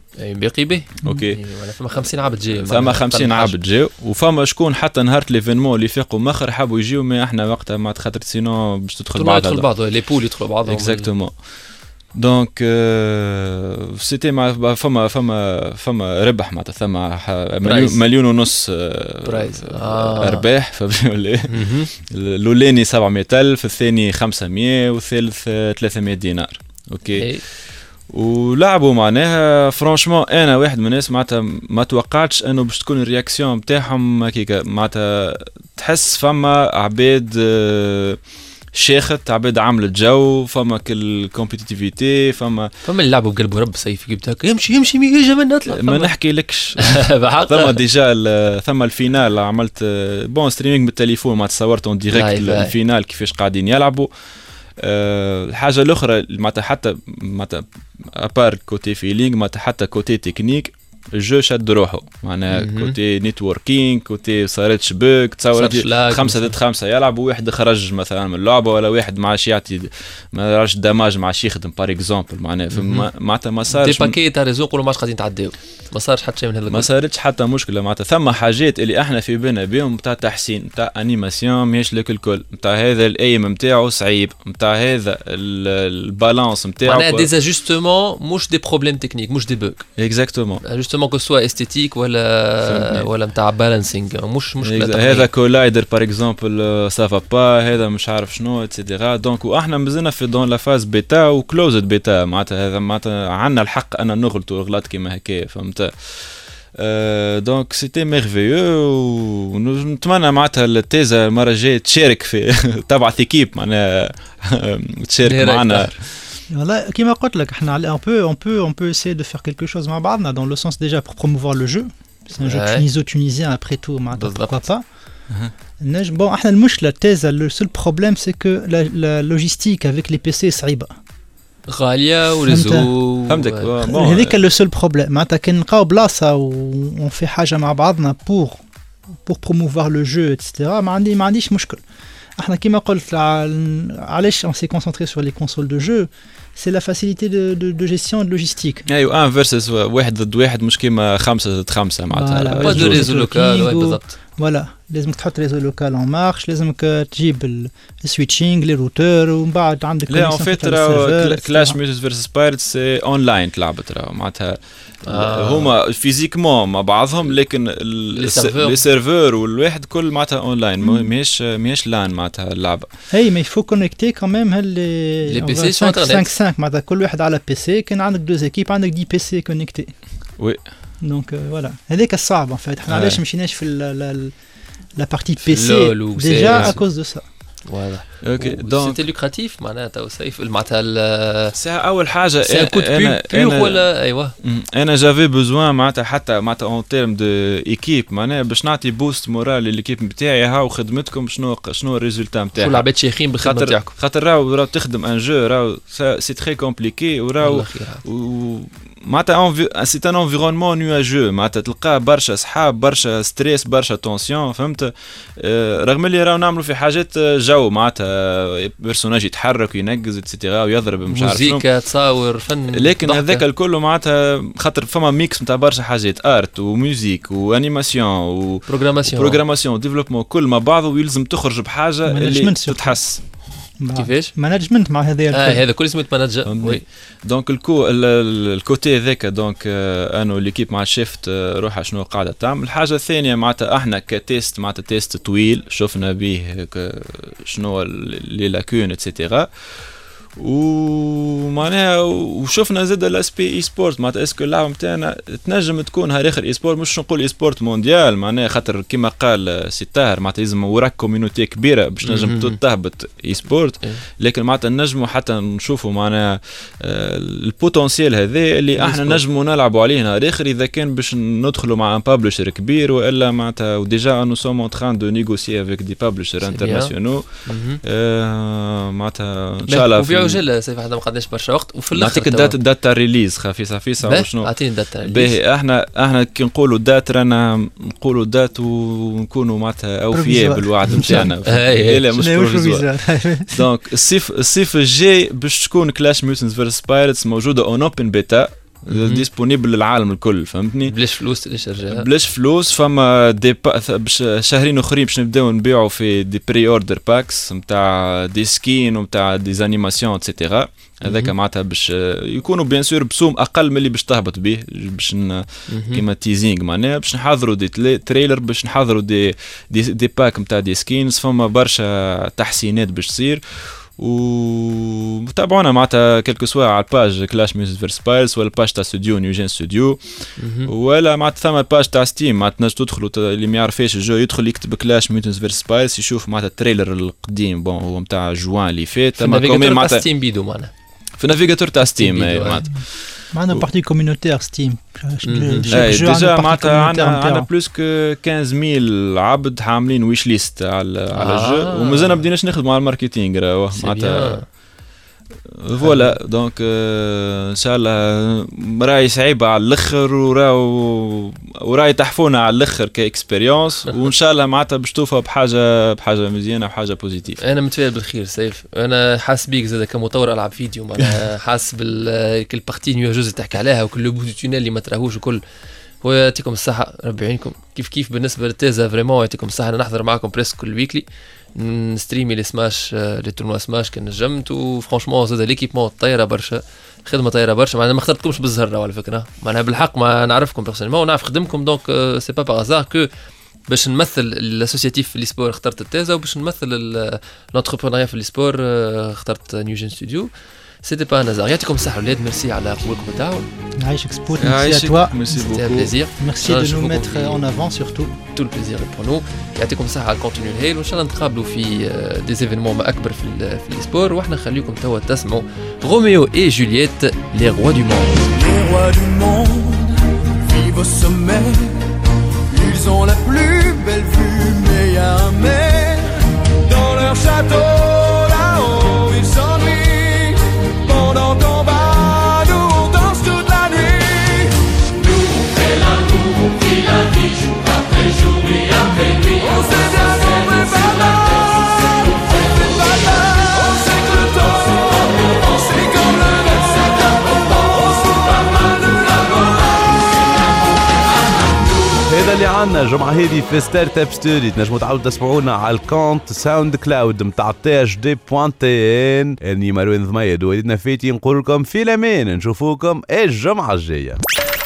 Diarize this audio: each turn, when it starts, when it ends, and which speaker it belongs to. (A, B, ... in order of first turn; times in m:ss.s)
0:00.2-0:03.6 A
0:01.0-0:01.4 B
0:02.5-0:09.7 B
0:09.1-0:11.1 A
0:10.6-0:11.4 B
0:12.1-0:27.3 B
0:17.6-0:18.0 A
0:19.2-0:20.5 A
0:21.5-0:21.9 A
0:27.1-0:27.4 A
0:28.1-0:38.2 B
0:38.7-0:42.7 B
0:42.8-0:46.1 A
0:45.7-0:54.1 B
0:46.8-0:47.8 A
0:52.1-0:52.7 A
0:54.8-1:14.2 B
1:02.5-1:02.9 A
1:05.5-1:06.5 A
1:12.7-1:13.1 A
1:13.7-1:16.9 A
1:16.7-1:27.3 B
1:26.8-1:29.9 A
1:30.0-1:30.6 B
1:30.6-1:35.3 A
1:32.6-1:33.0 B
1:34.6-1:56.1 B
1:55.2-1:56.0 A
1:56.5-2:04.8 C
2:02.4-2:02.8 A
2:04.1-2:04.6 A
2:05.8-2:10.9 C
2:11.7-2:13.7 A
2:12.5-2:12.9 C
2:13.3-2:14.3 B
2:13.8-2:18.6 C
2:19.2-2:21.8 C
2:22.4-2:28.8 C
2:28.9-2:33.2 B
2:32.1-2:41.8 C
2:32.6-2:34.1 A
2:40.1-2:52.9 B
2:45.1-2:45.7 A
2:48.2-2:48.8 A
2:53.1-2:59.9 C
2:55.2-2:56.3 A
3:01.0-3:04.3 C
3:02.9-3:03.2 B
3:05.0-3:07.2 C
3:05.4-3:06.8 A
3:06.4-3:06.7 B
3:07.7-3:11.6 A
3:08.2-3:09.0 B
3:11.5-3:13.8 B
3:12.4-3:14.3 A
3:14.4-3:22.9 B
3:22.6-3:23.9 A
3:23.4-3:41.6 B
3:27.4-3:28.0 A
3:41.1-3:43.4 A
3:42.7-3:53.2 B
3:48.7-3:49.4 A
3:52.1-3:53.0 C
3:53.8-3:55.6 C
3:53.9-3:54.3 A
3:55.3-3:56.8 A
3:56.4-4:09.5 B
4:10.4-4:40.4 B
4:22.0-4:22.6 A
4:28.8-4:29.2 A
4:36.4-4:36.9 A
4:37.4-4:37.8 A
4:39.7-4:42.6 A
4:41.9-4:44.5 B
4:44.0-4:45.3 A
4:45.0-4:52.9 B
4:50.1-4:51.3 C
4:50.9-4:52.1 A
4:52.1-4:53.6 C
4:53.5-5:00.9 B
4:58.9-4:59.2 A
5:00.9-5:02.1 A
5:01.9-5:30.0 B
5:11.0-5:11.3 A
5:15.7-5:16.0 A
5:30.4-5:30.7 A
5:30.6-5:40.0 B
5:39.2-5:40.7 A
5:41.2-5:43.6 B
5:41.8-5:42.6 A
5:43.3-5:47.5 C
5:45.2-5:45.9 A
5:45.7-5:54.4 B
5:51.1-5:52.2 A
5:53.8-5:54.4 A
5:55.5-6:07.4 B
5:55.8-5:56.2 A
6:07.4-6:15.4 A
6:16.0-6:33.1 A
6:33.7-6:40.3 A
6:40.8-6:43.5 A
6:43.8-6:45.2 C
6:44.4-6:45.9 B
6:45.3-6:47.4 A
6:46.2-6:48.2 C
6:48.3-6:58.4 A
7:06.8-7:07.3 D
7:19.6-7:20.5 D
7:23.8-7:24.6 D
7:25.8-7:26.1 D
7:32.1-7:44.2 E